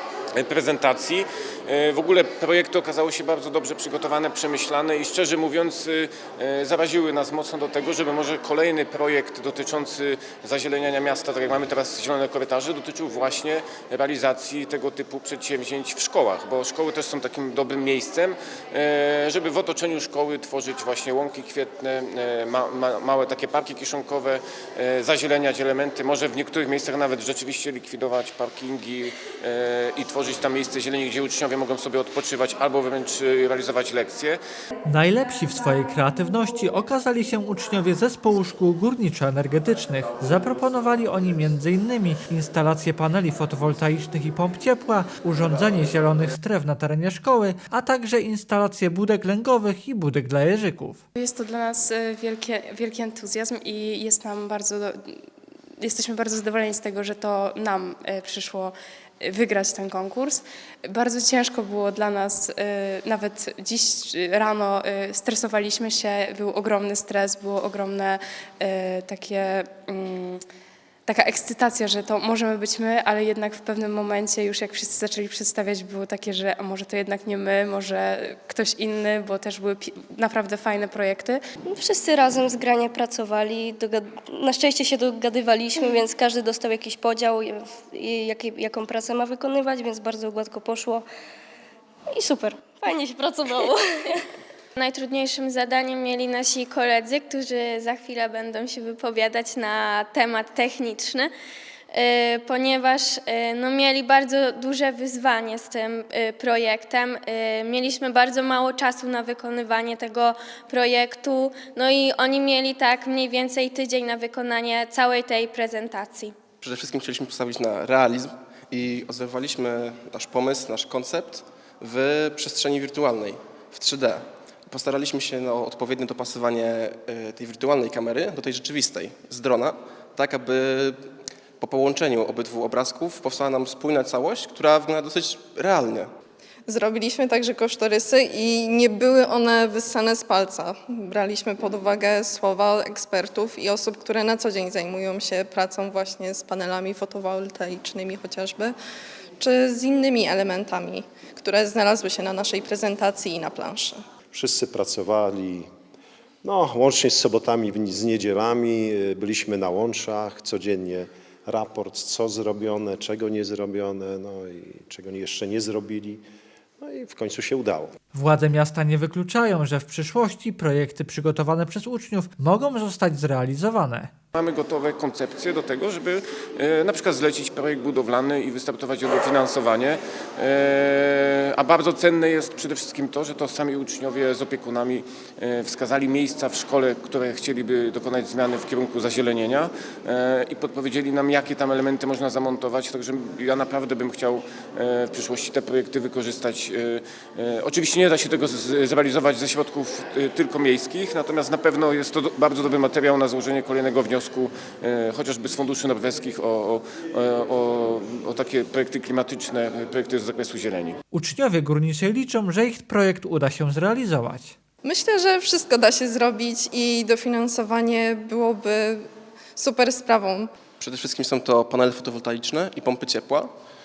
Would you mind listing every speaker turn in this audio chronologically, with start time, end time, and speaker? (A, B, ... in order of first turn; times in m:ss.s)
0:00.4-0:34.4 A
0:34.8-0:51.0 B
0:51.2-0:55.2 C
0:55.8-1:10.4 C
1:11.1-1:21.4 C
1:21.7-1:31.1 D
1:32.1-1:34.2 D
1:34.8-1:41.3 E
1:41.9-1:56.4 E
1:56.6-2:11.0 F
2:11.6-2:16.1 F
2:16.7-2:28.8 G
2:29.4-2:34.0 G
2:34.3-2:35.7 H
2:36.4-2:46.2 H
2:46.8-2:47.9 H
2:48.1-2:54.1 B
2:54.3-3:31.0 A
3:31.1-3:34.6 B
3:34.8-3:39.0 G
3:39.6-3:40.5 G
3:40.8-3:43.5 F